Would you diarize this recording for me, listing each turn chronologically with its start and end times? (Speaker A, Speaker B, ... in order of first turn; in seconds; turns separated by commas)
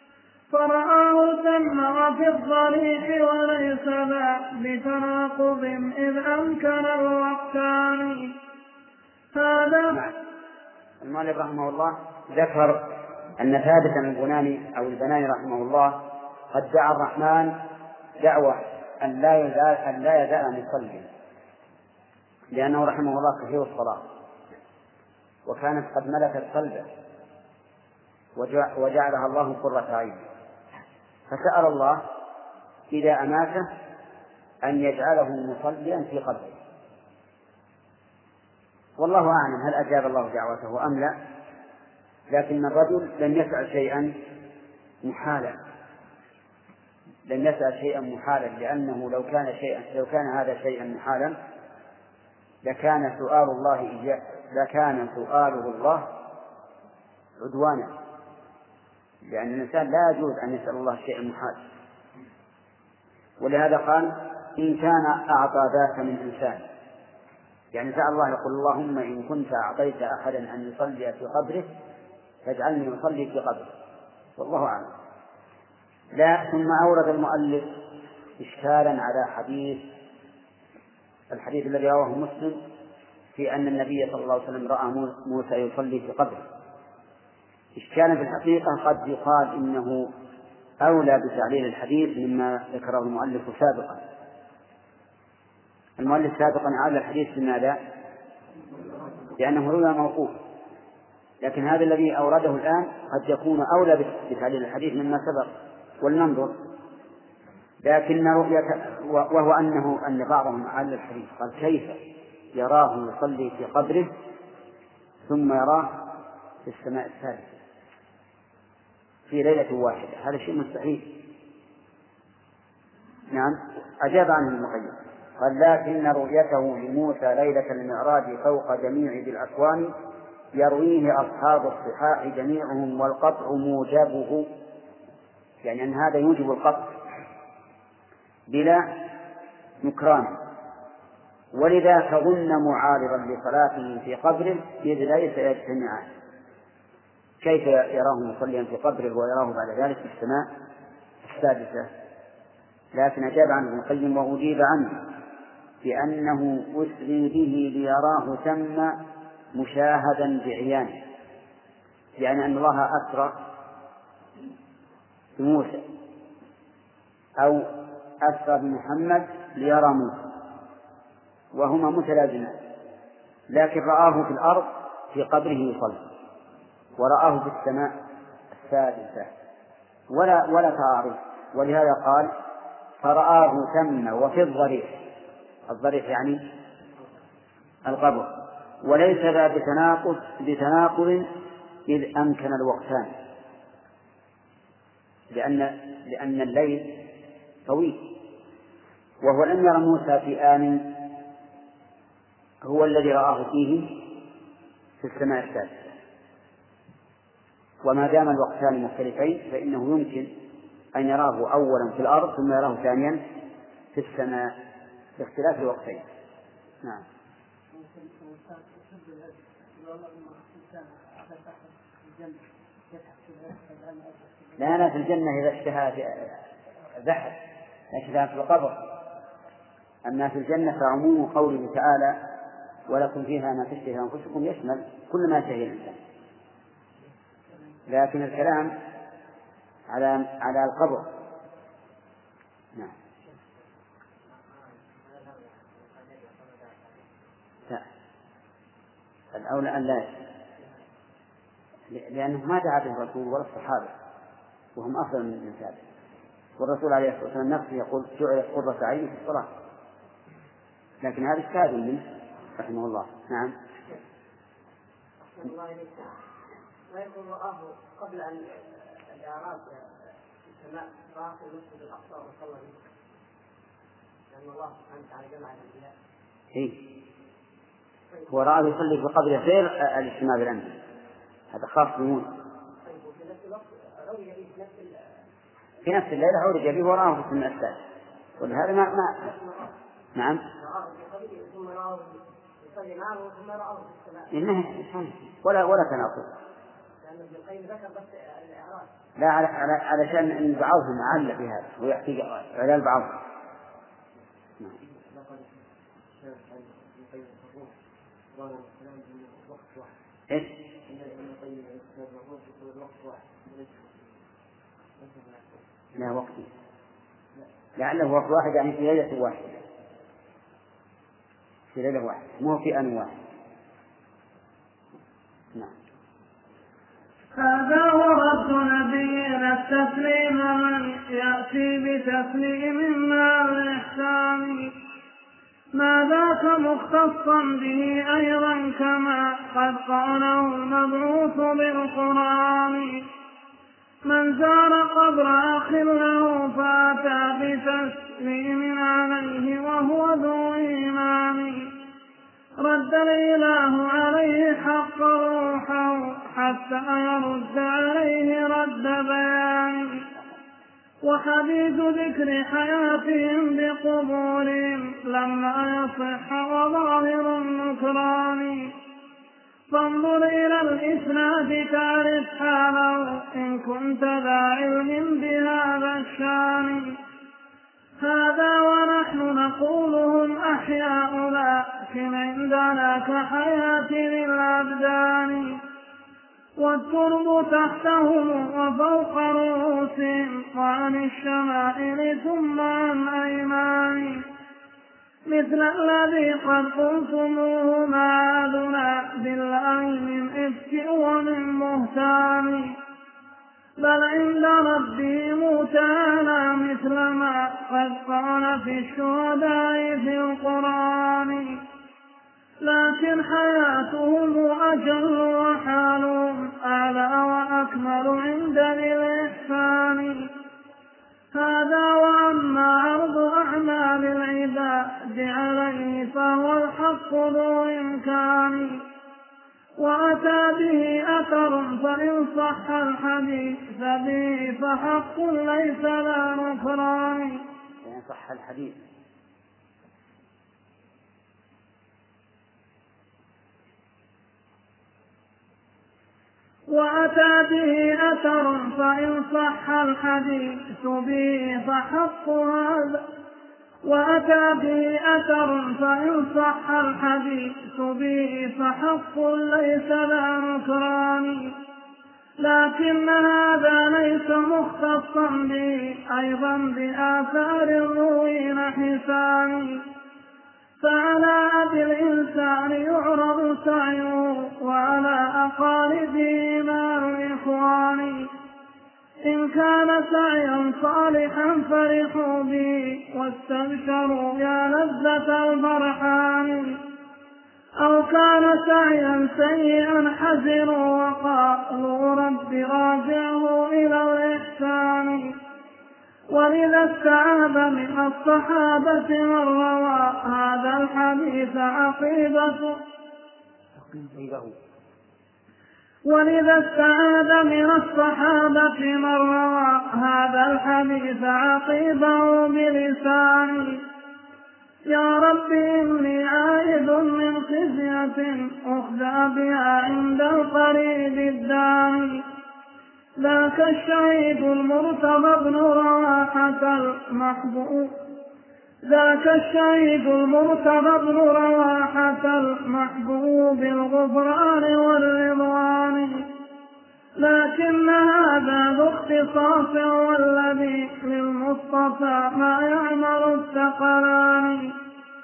Speaker A: 0.5-8.3, Speaker A: 9.3-10.0, Speaker B: 11.0-12.8, Speaker B: 13.4-17.6, Speaker B: 18.2-21.1, Speaker B: 22.5-24.1, Speaker B: 25.4-26.9, Speaker B: 28.4-30.2, Speaker B: 31.3-32.0, Speaker B: 32.9-33.7, Speaker B: 34.6-36.6, Speaker B: 39.0-41.2, Speaker B: 42.3-44.2, Speaker B: 45.0-45.6, Speaker B: 47.3-51.4, Speaker B: 52.6-56.1, Speaker B: 57.4-57.9, Speaker B: 59.3-61.6, Speaker B: 63.4-66.6, Speaker B: 67.7-71.7, Speaker B: 72.4-73.7, Speaker B: 74.4-74.9, Speaker B: 76.1-77.7, Speaker B: 78.4-79.8, Speaker B: 81.3-82.6, Speaker B: 83.3-86.4, Speaker B: 87.8-90.1, Speaker B: 90.8-94.0, Speaker B: 96.0-97.8, Speaker B: 99.4-100.4, Speaker B: 101.4-105.5, Speaker B: 106.0-106.6, Speaker B: 107.8-112.0, Speaker B: 112.5-114.1, Speaker B: 115.3-116.1, Speaker B: 116.6-117.6, Speaker B: 119.3-121.2, Speaker B: 123.3-129.9, Speaker B: 130.5-134.5, Speaker B: 135.6-137.0, Speaker B: 138.5-138.9, Speaker B: 139.8-140.4, Speaker B: 141.5-146.1, Speaker B: 147.4-150.5, Speaker B: 151.2-151.9, Speaker B: 152.9-155.1, Speaker B: 155.8-159.0, Speaker B: 159.5-161.0, Speaker B: 162.2-163.4, Speaker B: 165.4-165.8, Speaker B: 167.4-167.7, Speaker B: 168.2-170.2, Speaker B: 171.5-172.6, Speaker B: 173.5-176.0, Speaker B: 177.0-177.9, Speaker B: 178.5-179.3, Speaker B: 180.1-182.3, Speaker B: 183.0-184.9, Speaker B: 185.7-186.4, Speaker B: 187.8-188.3, Speaker B: 188.8-191.3, Speaker B: 191.9-193.1, Speaker B: 195.3-197.0, Speaker B: 197.7-198.1, Speaker B: 199.2-201.0, Speaker B: 202.6-204.0, Speaker B: 205.0-205.9, Speaker B: 207.8-210.3, Speaker B: 210.9-213.2, Speaker B: 213.9-214.5, Speaker B: 215.2-216.0, Speaker C: 217.7-224.7, Speaker B: 224.6-226.4, Speaker B: 227.0-227.4, Speaker B: 227.9-228.8, Speaker B: 230.0-232.2, Speaker B: 232.9-236.0, Speaker B: 237.9-238.7, Speaker B: 239.9-241.1, Speaker C: 244.4-247.2, Speaker B: 249.3-250.2, Speaker B: 251.9-253.9, Speaker B: 254.8-255.8, Speaker B: 256.6-259.5, Speaker B: 261.0-262.0, Speaker B: 262.6-263.5, Speaker C: 265.4-266.1, Speaker C: 266.9-272.8, Speaker C: 274.3-275.9, Speaker B: 276.5-276.8, Speaker B: 278.3-280.8, Speaker B: 281.5-282.3, Speaker C: 282.8-285.1, Speaker B: 285.8-287.8, Speaker B: 288.4-289.3, Speaker C: 289.2-289.7, Speaker B: 290.1-290.4, Speaker C: 290.6-294.3, Speaker B: 294.3-296.3, Speaker C: 297.0-298.9, Speaker B: 299.2-303.2, Speaker C: 304.8-307.8, Speaker C: 308.3-309.9, Speaker B: 310.3-310.6, Speaker C: 310.9-314.2, Speaker C: 315.0-315.6, Speaker B: 316.0-316.5, Speaker B: 317.8-319.6, Speaker B: 321.7-323.1, Speaker A: 327.3-334.7, Speaker A: 335.7-343.1, Speaker A: 344.0-351.7, Speaker A: 352.6-360.1, Speaker A: 361.0-368.7, Speaker A: 369.7-377.0, Speaker A: 378.0-385.6, Speaker A: 386.6-394.2, Speaker A: 395.3-402.8, Speaker A: 403.8-411.6, Speaker A: 412.6-420.3, Speaker A: 421.3-428.8, Speaker A: 429.8-437.4, Speaker B: 437.8-438.8, Speaker A: 446.7-453.0, Speaker A: 453.8-461.6, Speaker A: 462.4-469.8, Speaker A: 470.8-478.3, Speaker A: 479.2-486.8, Speaker A: 487.8-495.4, Speaker A: 496.3-502.8, Speaker B: 504.1-504.5, Speaker A: 506.0-513.8, Speaker A: 514.9-522.2, Speaker A: 523.2-527.9, Speaker A: 528.9-536.3, Speaker A: 537.2-544.7